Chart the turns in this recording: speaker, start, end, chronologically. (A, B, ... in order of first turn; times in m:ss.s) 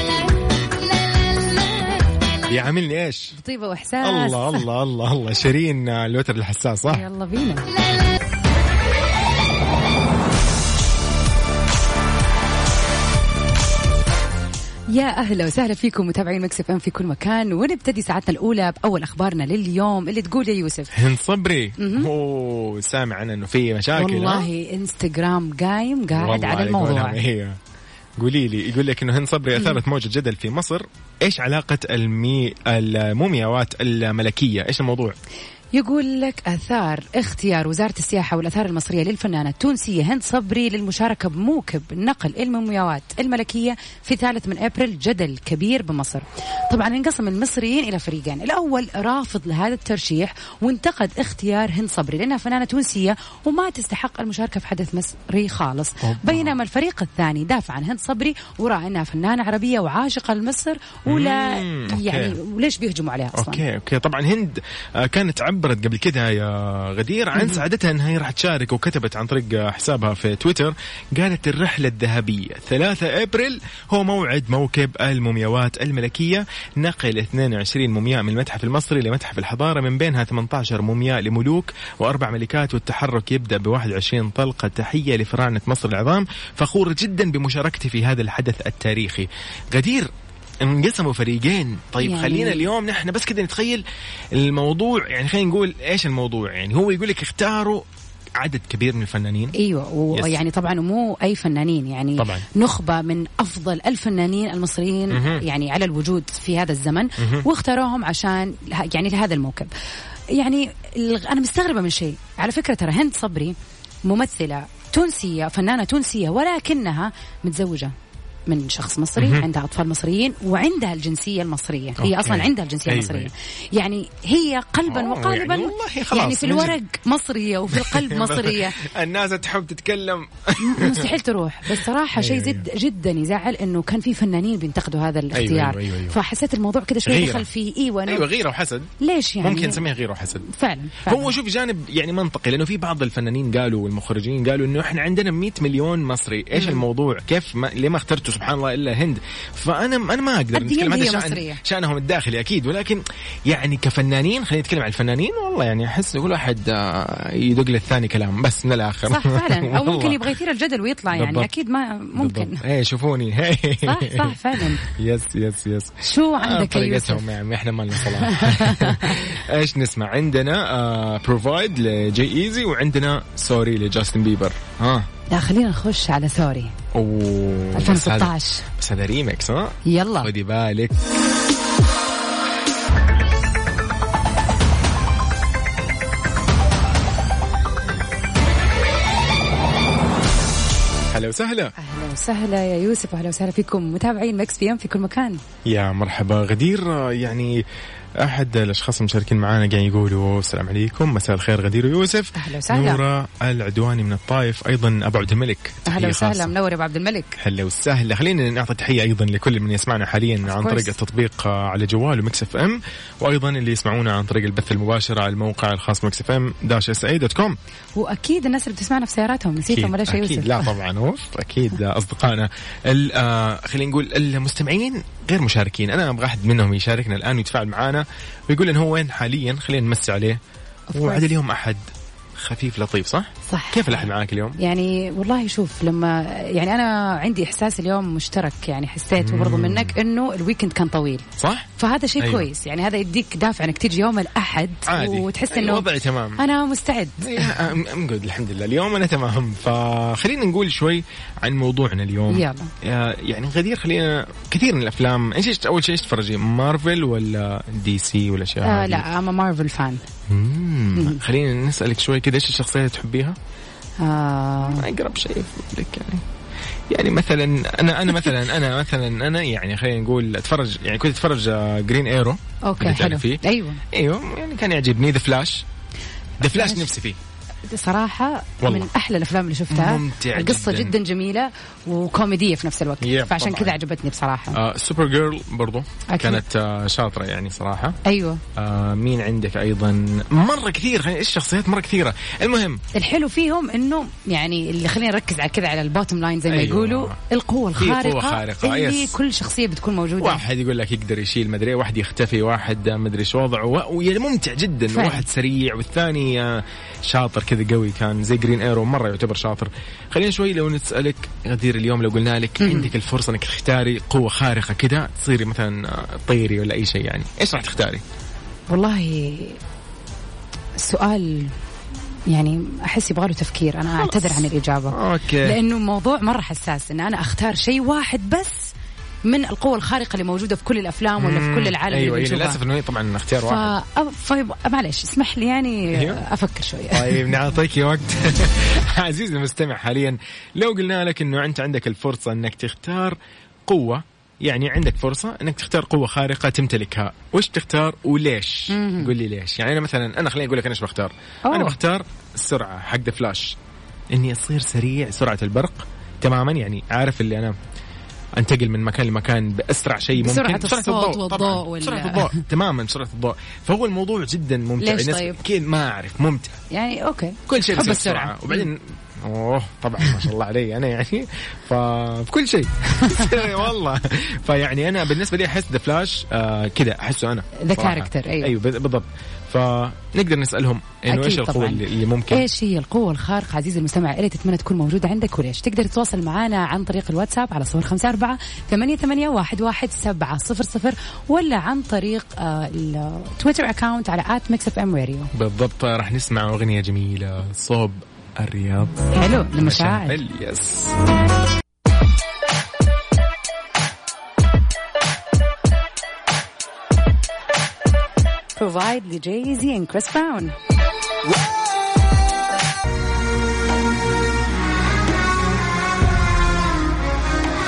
0:02.4-0:03.4 A
0:03.3-0:04.6 B
0:04.0-0:07.1 A
0:06.9-0:07.7 B
0:14.9-0:21.0 B
0:20.9-0:24.5 A
0:21.8-0:22.1 B
0:24.0-0:27.2 B
0:26.1-0:27.6 A
0:28.2-0:35.2 A
0:35.7-1:03.6 B
0:56.0-0:56.6 A
1:01.1-1:02.4 A
1:03.3-1:30.1 A
1:30.6-1:37.9 A
1:32.0-1:32.7 B
1:38.4-1:39.6 A
1:39.6-1:49.7 B
1:40.1-1:40.4 A
1:42.2-1:42.5 A
1:45.1-1:45.4 A
1:47.2-1:47.5 A
1:50.3-1:57.9 B
1:58.5-2:08.8 B
1:59.2-1:59.5 A
2:02.0-2:03.3 A
2:04.9-2:06.8 A
2:07.7-2:11.1 A
2:10.6-2:18.3 B
2:11.8-2:12.7 A
2:15.3-2:16.2 A
2:17.0-2:17.5 A
2:18.1-2:20.5 A
2:19.0-2:19.8 B
2:20.5-2:21.3 B
2:21.0-2:40.3 A
2:26.6-2:26.8 B
2:30.5-2:31.6 B
2:39.1-2:42.6 B
2:41.1-2:41.5 A
2:42.2-2:55.1 A
2:43.8-2:44.8 B
2:46.0-2:47.2 B
2:48.0-2:49.4 B
2:55.3-2:56.8 B
2:56.9-3:01.0 A
2:57.8-2:58.7 B
2:59.8-3:00.3 B
3:11.1-3:11.7 A
3:11.8-3:15.4 B
3:15.7-3:17.6 A
3:18.2-3:26.5 A
3:22.4-3:23.0 B
3:25.8-3:27.4 B
3:27.4-3:37.6 A
3:30.5-3:30.9 B
3:38.0-3:40.7 B
3:39.6-3:50.4 A
3:50.9-3:51.3 B
3:50.9-3:51.8 A
3:52.4-3:54.6 A
3:53.5-4:01.3 B
3:59.2-4:00.0 A
4:01.4-4:01.7 A
4:01.8-4:07.6 B
4:02.2-4:02.5 A
4:04.9-4:06.4 A
4:07.2-4:19.0 A
4:12.3-4:12.7 B
4:18.6-4:20.0 B
4:20.3-4:23.4 A
4:24.0-4:24.8 B
4:24.7-4:26.2 A
4:26.9-4:35.6 A
4:32.6-4:33.8 B
4:36.4-4:37.2 A
4:36.4-4:36.9 B
4:37.7-4:44.6 B
4:38.6-4:38.9 A
4:39.7-4:41.0 A
4:43.0-4:43.8 A
4:44.5-4:48.0 A
4:46.1-4:46.4 B
4:48.0-4:48.4 B
4:48.6-4:52.8 A
4:52.9-5:00.4 B
4:56.5-4:57.2 A
4:57.8-4:59.2 A
5:00.2-5:18.0 A
5:04.9-5:05.3 B
5:12.6-5:12.9 B
5:18.7-5:19.6 B
5:20.8-5:21.6 B
5:22.3-5:28.7 B
5:24.0-5:25.6 A
5:29.3-5:32.6 B
5:31.2-5:33.7 A
5:33.4-5:37.3 B
5:35.9-5:36.2 A
5:36.9-5:53.6 A
5:48.7-5:49.1 B
5:51.5-5:51.8 B
5:54.1-5:57.6 A
5:58.4-6:06.6 A
6:00.2-6:02.5 B
6:04.8-6:05.4 B
6:06.7-6:08.7 B
6:07.5-6:22.5 A
6:12.9-6:13.5 B
6:17.6-6:18.5 B
6:21.1-6:35.3 B
6:35.3-6:41.0 A
6:39.1-6:40.2 B
6:48.6-6:50.5 B